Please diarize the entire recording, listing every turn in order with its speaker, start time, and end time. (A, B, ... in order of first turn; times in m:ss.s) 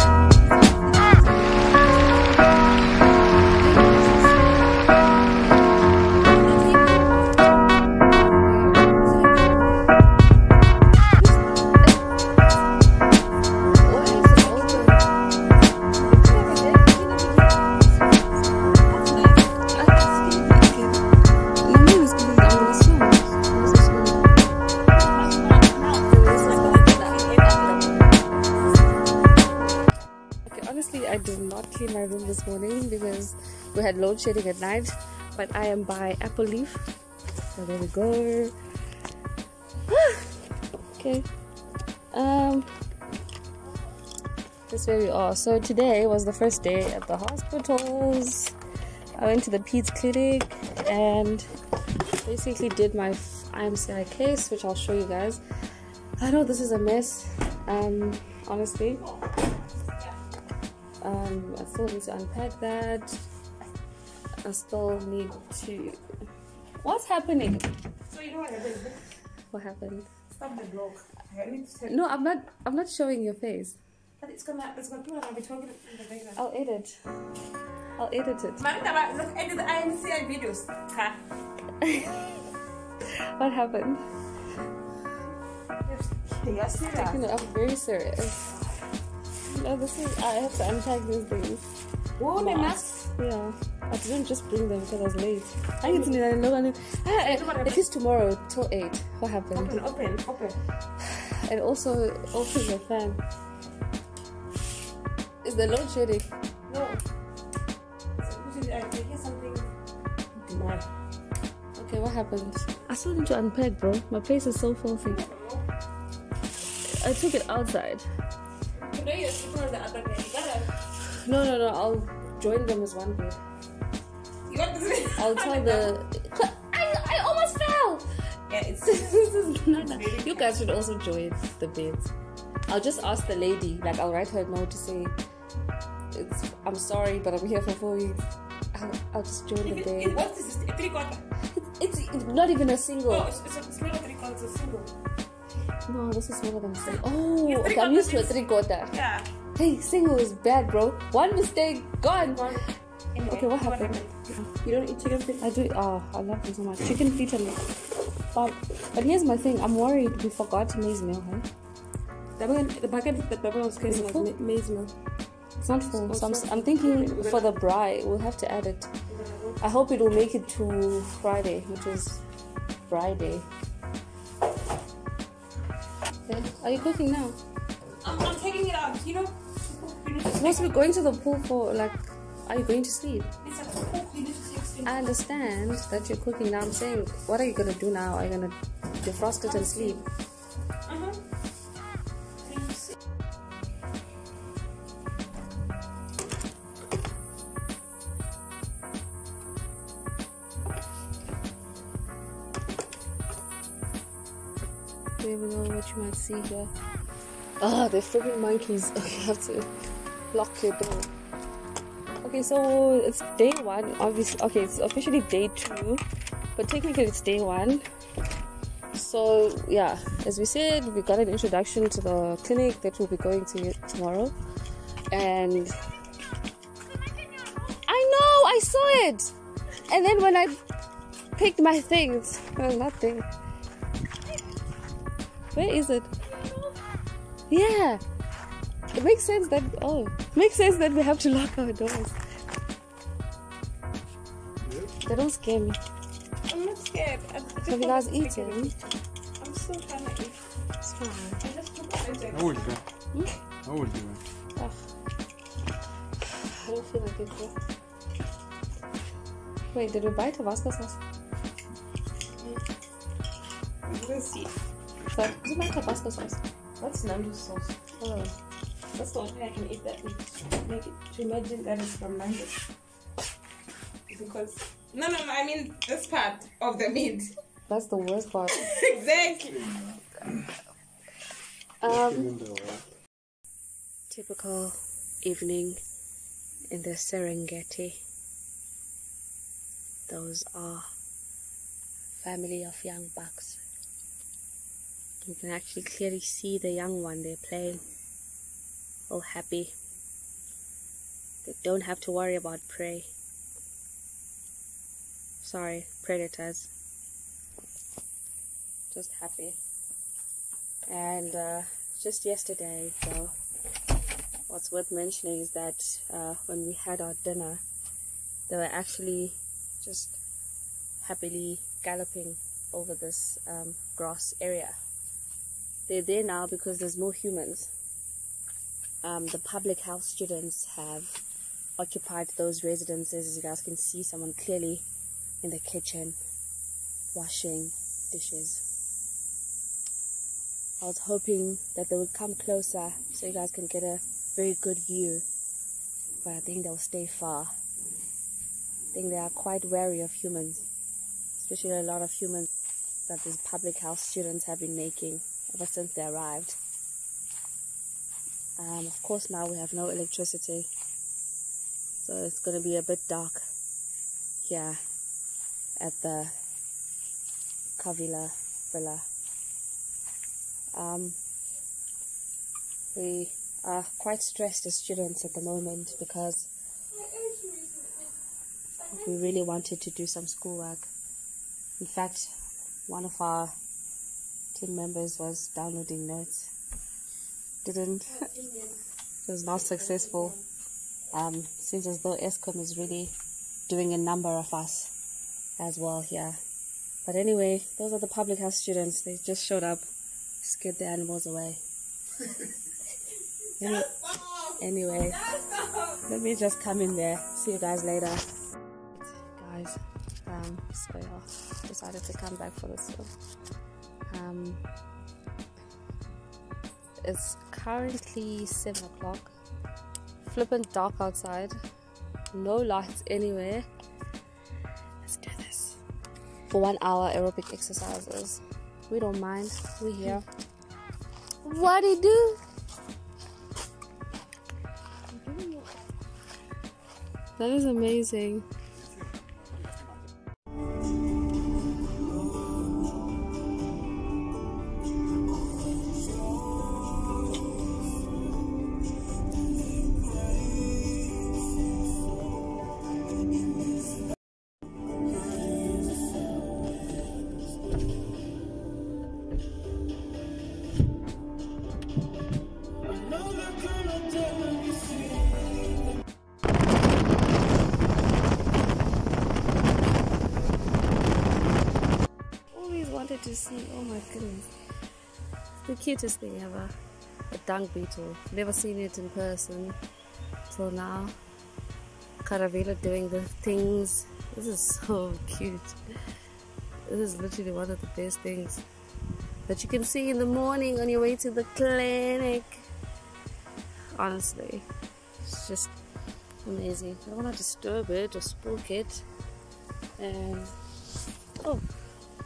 0:00.4-0:02.6 A
0:03.6-0:04.7 B
0:03.7-0:04.1 A
0:05.3-0:05.9 B
0:06.3-0:07.4 A
0:08.2-0:09.8 A
0:11.1-0:11.7 A
0:13.8-0:15.0 B
0:13.9-0:14.9 A
0:16.0-0:17.8 A
0:16.1-0:16.8 B
0:18.4-0:20.9 A
0:19.8-0:21.0 B
0:21.6-0:24.2 B
0:24.9-0:28.6 A
0:26.1-0:28.0 B
0:30.4-0:36.8 B
0:37.5-0:38.5 B
0:39.9-0:40.2 B
0:40.9-0:41.3 B
0:42.1-0:42.7 B
0:44.7-0:48.5 B
0:49.2-0:51.4 B
0:52.2-0:55.4 B
0:56.2-0:59.0 B
1:01.0-1:03.2 B
1:04.4-1:06.0 B
1:06.8-1:07.7 B
1:08.1-1:09.0 A
1:09.5-1:10.1 B
1:10.3-1:12.0 A
1:11.9-1:13.8 B
1:14.2-1:16.4 A
1:16.4-1:17.0 B
1:18.0-1:18.6 B
1:18.6-1:21.2 A
1:21.8-1:22.4 B
1:23.1-1:24.0 B
1:25.8-1:27.2 A
1:26.9-1:28.6 B
1:29.4-1:31.6 B
1:32.2-1:33.0 A
1:32.4-1:39.8 B
1:35.8-1:36.2 A
1:37.2-1:37.8 A
1:39.5-1:40.6 A
1:41.0-1:43.2 B
1:45.4-1:46.3 B
1:46.7-1:47.0 A
1:48.2-1:49.7 A
1:50.4-1:50.9 A
1:51.8-1:55.2 B
1:55.0-1:55.6 A
1:56.8-1:58.1 B
1:58.8-2:00.7 A
2:01.0-2:03.4 B
2:04.5-2:05.9 A
2:05.2-2:08.1 B
2:08.5-2:10.6 A
2:08.8-2:12.1 B
2:12.7-2:15.2 B
2:16.1-2:18.2 B
2:18.7-2:20.2 B
2:19.7-2:21.2 A
2:21.6-2:23.3 B
2:23.1-2:24.9 A
2:25.8-2:28.9 B
2:26.8-2:28.4 A
2:28.9-2:29.3 A
2:29.5-2:32.6 B
2:32.2-2:32.6 A
2:33.1-2:35.4 A
2:33.2-2:34.5 B
2:35.4-2:37.6 B
2:38.3-2:41.5 B
2:42.4-2:44.9 A
2:43.9-2:44.3 B
2:45.6-2:48.9 B
2:45.9-2:47.5 A
2:49.1-2:49.6 A
2:49.6-2:52.2 B
2:52.9-2:53.5 B
2:56.3-2:57.4 B
2:58.0-3:00.9 A
3:00.3-3:03.3 B
3:03.4-3:05.4 A
3:04.8-3:10.1 B
3:09.4-3:10.0 A
3:10.8-3:11.2 A
3:12.4-3:12.9 A
3:25.2-3:26.7 B
3:27.6-3:29.7 B
3:30.3-3:31.1 B
3:32.2-3:36.0 B
3:36.6-3:37.8 B
3:38.9-3:44.3 B
3:45.1-3:45.8 B
3:47.0-3:47.7 A
3:47.8-3:49.3 B
3:49.9-3:50.6 B
3:51.3-3:53.3 B
3:55.5-3:56.1 B
3:56.3-3:56.7 A
3:57.5-3:58.0 B
3:58.9-4:02.1 B
4:04.6-4:04.9 C
4:05.0-4:05.8 B
4:06.5-4:10.4 A
4:07.6-4:08.7 B
4:10.8-4:11.4 B
4:11.4-4:12.8 A
4:12.3-4:12.8 C
4:13.1-4:13.4 B
4:13.6-4:14.2 C
4:16.3-4:17.5 B
4:19.7-4:21.0 B
4:23.8-4:24.5 A
4:25.1-4:26.4 B
4:26.8-4:27.8 A
4:28.0-4:28.3 B
4:28.9-4:32.6 A
4:34.1-4:37.3 A
4:37.7-4:38.6 B
4:38.5-4:40.0 A
4:41.8-4:42.4 B
4:42.4-4:42.7 C
4:44.1-4:45.8 B
4:46.7-4:48.0 B
4:50.1-4:50.9 B
4:52.2-4:53.6 B
4:55.2-4:57.8 B
4:59.1-4:59.7 B
5:01.4-5:03.1 B
5:05.4-5:06.7 B
5:08.9-5:09.6 B
5:10.9-5:13.3 B
5:14.5-5:17.6 B
5:18.5-5:20.2 B
5:21.0-5:24.8 B
5:25.9-5:27.7 B
5:29.0-5:31.2 B
5:31.8-5:34.8 B
5:35.4-5:36.2 B
5:37.1-5:38.6 B
5:40.8-5:45.2 B
5:46.2-5:47.5 B
5:48.9-5:50.7 B
5:51.4-5:52.5 B
5:53.0-5:56.6 B
5:58.6-6:00.7 B
6:02.0-6:03.4 B
6:04.4-6:04.8 B
6:05.8-6:06.3 B
6:07.8-6:09.0 B
6:10.7-6:11.2 B
6:12.9-6:16.5 B
6:17.2-6:17.8 A
6:18.9-6:20.9 B
6:21.8-6:22.3 B
6:22.9-6:23.5 B
6:24.5-6:26.5 B
6:27.6-6:28.3 B
6:29.2-6:30.4 B
6:31.1-6:33.1 B
6:33.7-6:34.9 B
6:35.6-6:36.4 B
6:37.0-6:39.8 B
6:40.4-6:41.6 B
6:43.6-6:45.3 B
6:45.3-6:45.8 A
6:46.0-6:48.2 B
6:49.0-6:53.1 B
6:54.1-6:54.6 B
6:57.0-6:59.3 B
7:00.2-7:01.6 B
7:02.3-7:03.7 B
7:05.0-7:05.8 B
7:06.5-7:10.2 B
7:11.4-7:12.4 B
7:15.1-7:15.7 B
7:17.4-7:18.4 B
7:19.0-7:19.8 C
7:52.5-7:54.5 B
7:55.6-7:56.7 B
7:57.3-7:59.8 B
8:00.5-8:01.1 B
8:02.2-8:05.8 B
8:06.9-8:08.6 B
8:09.5-8:12.6 B
8:13.9-8:14.6 B
8:15.2-8:15.7 B
8:16.4-8:19.0 B
8:20.0-8:20.5 B